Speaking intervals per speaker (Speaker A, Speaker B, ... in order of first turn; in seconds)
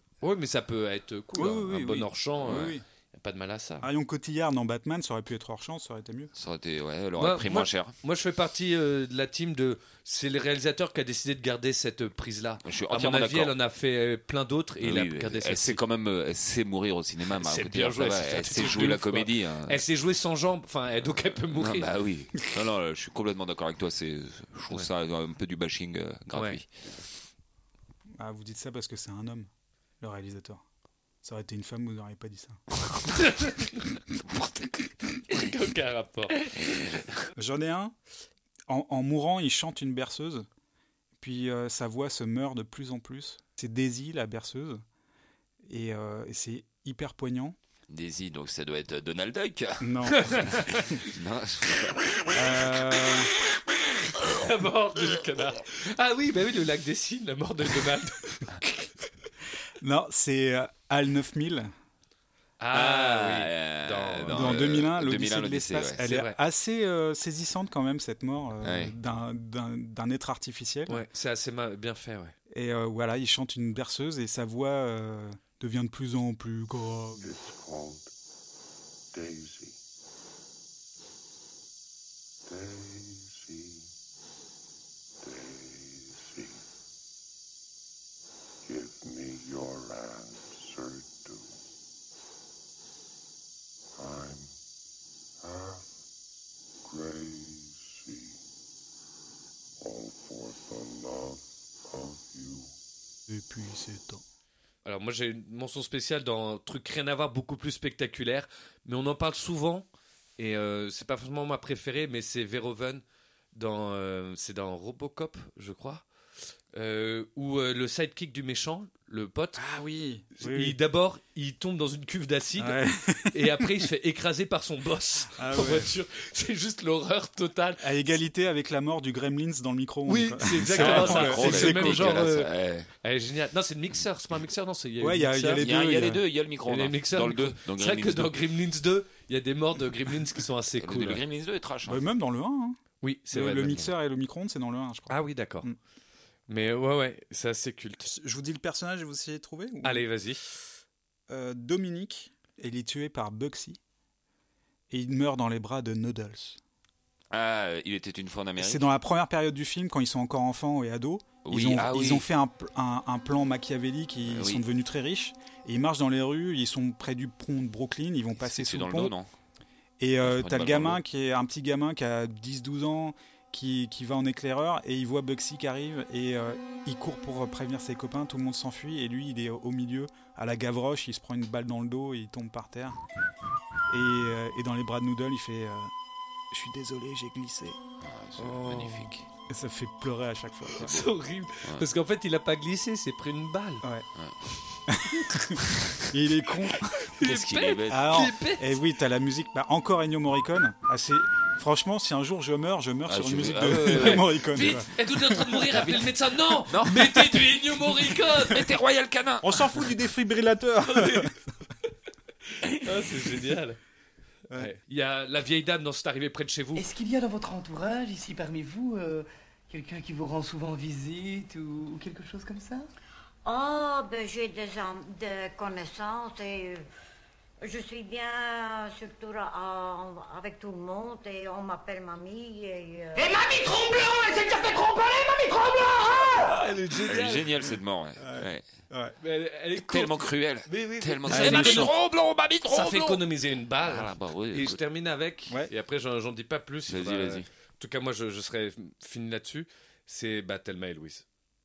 Speaker A: 0.2-3.9, 7.2-15.8, 17.4-21.9, 26.3-26.6, 33.1-33.8, 35.3-36.4, 50.1-50.8, 54.2-58.5, 62.6-64.5, 66.0-66.4, 70.9-72.3, 104.8-109.9, 110.4-113.0, 113.5-116.0, 116.7-119.6, 120.4-122.8, 123.3-127.8, 130.1-132.5, 133.0-135.7, 136.7-141.2, 143.0-143.9, 145.1-145.7, 146.5-148.1, 149.8-150.4, 188.4-189.1, 190.8-193.8, 197.1-198.8, 203.7-208.7, 210.9-211.3, 212.7-213.8, 214.6-216.9, 236.5-237.5, 239.2-241.9, 242.7-251.2
Speaker B: 1.4-2.8, 3.8-6.3, 28.2-29.5, 30.0-30.6, 31.2-32.6, 37.4-38.0, 38.7-40.5, 41.2-44.8, 45.6-47.6, 49.8-50.3, 52.3-53.3, 59.8-61.7, 64.3-71.0, 72.5-77.3, 103.3-104.2, 119.6-120.8, 122.6-123.7, 125.3-125.9, 127.8-132.3, 135.0-136.2, 141.9-142.8, 143.3-145.8, 148.0-150.1, 151.3-153.8, 154.9-156.6, 158.6-169.1, 170.0-183.0, 183.9-185.9, 186.5-187.8, 189.5-191.0, 194.9-195.6, 196.1-196.9, 197.9-205.5, 209.4-211.3, 238.2-239.2, 241.3-241.9
Speaker C: 2.5-2.7, 6.3-7.9, 12.6-13.5, 14.8-19.8, 21.2-26.7, 47.9-52.6, 62.7-66.0, 68.6-68.9, 130.7-132.9, 135.6-138.4, 140.8-142.0, 157.3-158.9, 161.4-162.3, 164.3-164.6, 168.4-169.3, 170.2-171.0, 188.0-189.2, 195.7-196.0, 197.2-198.3, 203.1-204.3, 206.7-209.8, 237.1-238.6, 239.8-243.2, 243.8-244.8, 246.9-247.5
Speaker D: 77.2-78.1, 79.1-79.8, 82.5-83.9, 85.2-86.6, 88.6-91.6, 94.0-94.5, 95.4-95.8, 96.8-98.4, 99.8-102.7
Speaker E: 216.8-222.9
Speaker F: 223.4-226.8, 227.6-236.4